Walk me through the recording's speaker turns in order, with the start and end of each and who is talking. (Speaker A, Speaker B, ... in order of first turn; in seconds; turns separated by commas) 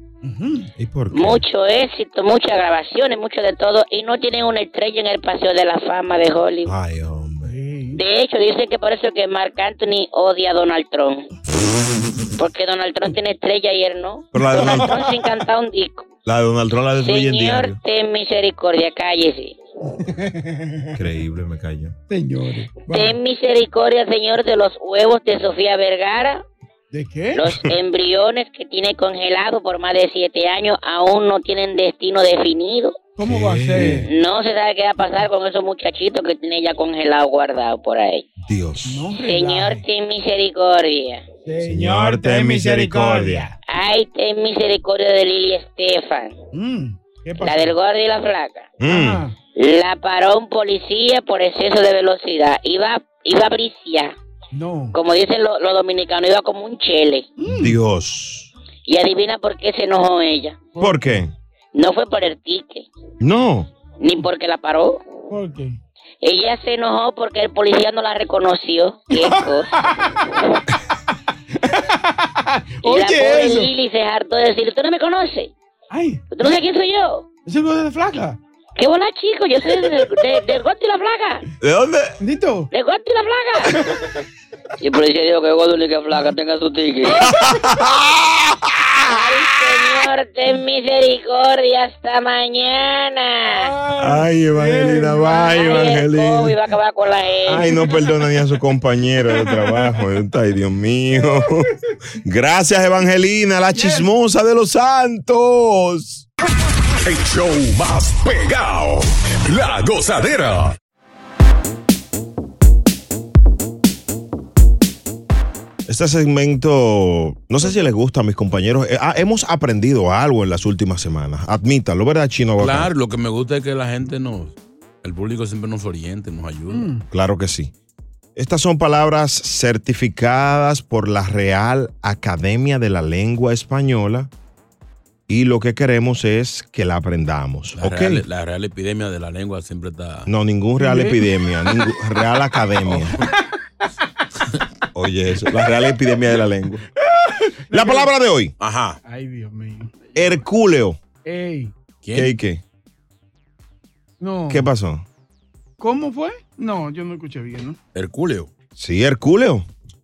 Speaker A: 0.2-0.7, Speaker B: 0.8-1.4, Speaker C: 1.1-6.7, Speaker B: 6.7-7.5, Speaker A: 7.4-8.0, Speaker C: 7.9-11.3, Speaker C: 12.3-16.1, Speaker B: 14.3-15.1, Speaker A: 14.5-15.1, Speaker B: 16.2-17.8, Speaker C: 17.0-19.6, Speaker A: 20.0-20.9, Speaker B: 20.9-21.9, Speaker A: 22.1-23.2, Speaker C: 22.9-26.4, Speaker A: 26.9-27.5, Speaker C: 27.3-33.0, Speaker A: 33.1-34.1, Speaker B: 33.2-34.1, Speaker C: 33.9-38.3, Speaker B: 38.4-39.1, Speaker A: 38.8-39.8, Speaker C: 39.1-41.2, Speaker A: 41.4-43.5, Speaker B: 41.6-43.5, Speaker C: 43.7-46.3, Speaker A: 46.5-47.8, Speaker C: 47.4-48.7, Speaker B: 48.8-49.2, Speaker A: 48.8-49.3, Speaker C: 49.5-54.1, Speaker A: 54.5-55.0, Speaker C: 54.9-57.3, Speaker A: 57.4-57.8, Speaker B: 57.5-58.5, Speaker C: 58.9-60.6, Speaker A: 60.7-61.2, Speaker B: 60.8-61.3, Speaker C: 61.7-62.9, Speaker B: 63.2-63.7, Speaker C: 64.0-65.0, Speaker A: 65.3-65.7, Speaker C: 66.2-70.6, Speaker A: 69.1-69.6, Speaker A: 71.6-73.7, Speaker C: 72.8-75.5, Speaker A: 75.9-76.2, Speaker C: 76.3-77.2, Speaker A: 77.5-78.4, Speaker C: 78.8-81.4, Speaker B: 81.6-82.2, Speaker A: 82.2-82.7, Speaker C: 82.7-83.8, Speaker C: 84.8-87.3, Speaker B: 87.2-89.4, Speaker C: 89.0-93.7, Speaker A: 93.5-95.9, Speaker B: 94.0-96.6, Speaker C: 95.4-97.7, Speaker B: 97.5-101.7, Speaker A: 97.5-98.0, Speaker A: 99.4-99.9, Speaker B: 102.2-106.2, Speaker A: 103.7-104.1, Speaker D: 107.0-110.8, Speaker B: 115.8-122.9, Speaker E: 122.6-126.9, Speaker A: 126.7-127.0, Speaker B: 127.1-127.7, Speaker B: 128.3-134.3, Speaker B: 135.3-138.2, Speaker E: 137.8-140.3, Speaker B: 140.3-143.2, Speaker A: 140.8-141.2, Speaker E: 142.8-143.3, Speaker B: 144.9-146.8, Speaker A: 147.7-148.1, Speaker B: 147.7-148.5, Speaker E: 148.6-149.0, Speaker A: 149.0-150.4, Speaker B: 150.1-151.0, Speaker A: 151.2-151.7, Speaker E: 152.0-152.3, Speaker B: 152.1-152.6, Speaker A: 154.2-154.7, Speaker B: 154.5-155.0, Speaker A: 155.8-157.8, Speaker E: 157.9-158.5, Speaker B: 158.8-159.7